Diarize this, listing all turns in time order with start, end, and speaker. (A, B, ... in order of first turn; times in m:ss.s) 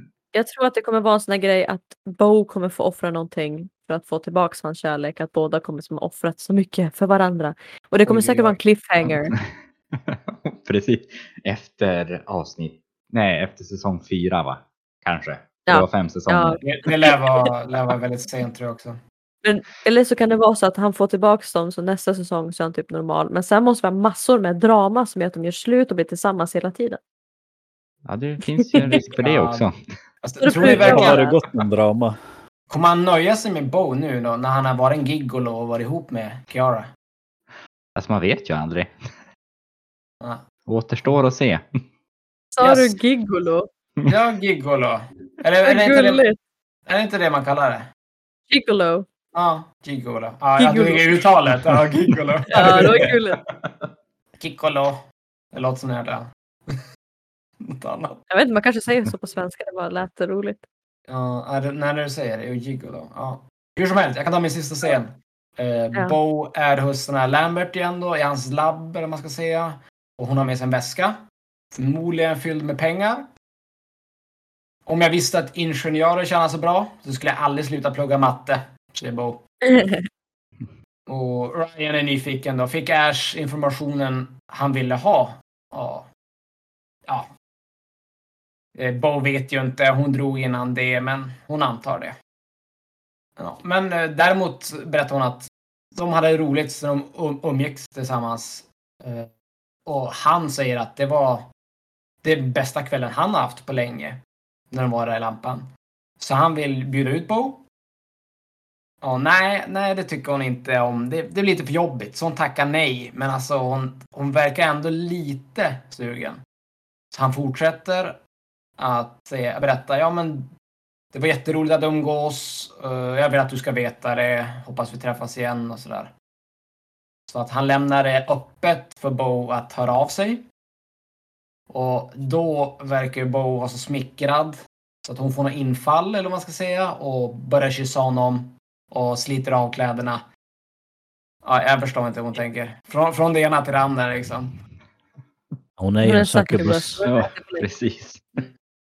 0:00.3-0:09.4 A
0:08.1-0:08.6 B
0:09.1-0:16.6 C
0:15.7-0:17.5 A
0:16.6-0:19.0 B
0:19.4-0:27.0 A
0:28.1-0:29.8 C
0:28.6-0:29.0 A
0:29.2-0:29.7 B
0:30.2-0:31.2 B
0:30.4-0:31.4 A
0:30.6-0:32.2 D
0:32.7-0:36.9 B
0:38.0-0:38.9 C
0:40.7-0:41.6 C
0:42.5-0:43.7 A
0:42.6-0:43.0 B
0:44.1-0:46.2 B
0:45.6-0:46.4 A
0:46.9-0:47.9 B
0:48.5-0:49.1 A
0:49.3-0:53.1 B
0:50.6-0:51.2 A
0:52.5-0:53.4 A
0:52.6-0:53.1 C
0:54.4-0:55.0 B
0:55.5-0:56.8 B
0:57.7-0:58.2 B
0:58.3-1:00.6 A
1:01.1-1:11.2 B
1:11.7-1:13.3 B
1:14.9-1:19.4 B
1:19.7-1:20.0 A
1:21.1-1:26.1 B
1:28.8-1:32.2 B
1:33.4-1:39.3 B
1:39.9-1:41.5 B
1:42.2-1:45.7 B
1:46.2-1:47.6 B
1:49.0-1:56.4 B
1:57.1-1:58.2 B
1:58.8-2:00.5 B
2:01.1-2:06.1 B
2:07.3-2:10.4 B
2:11.7-2:20.2 B
2:21.4-2:24.5 B
2:25.8-2:27.0 D
2:26.0-2:27.7 A
2:27.0-2:28.2 C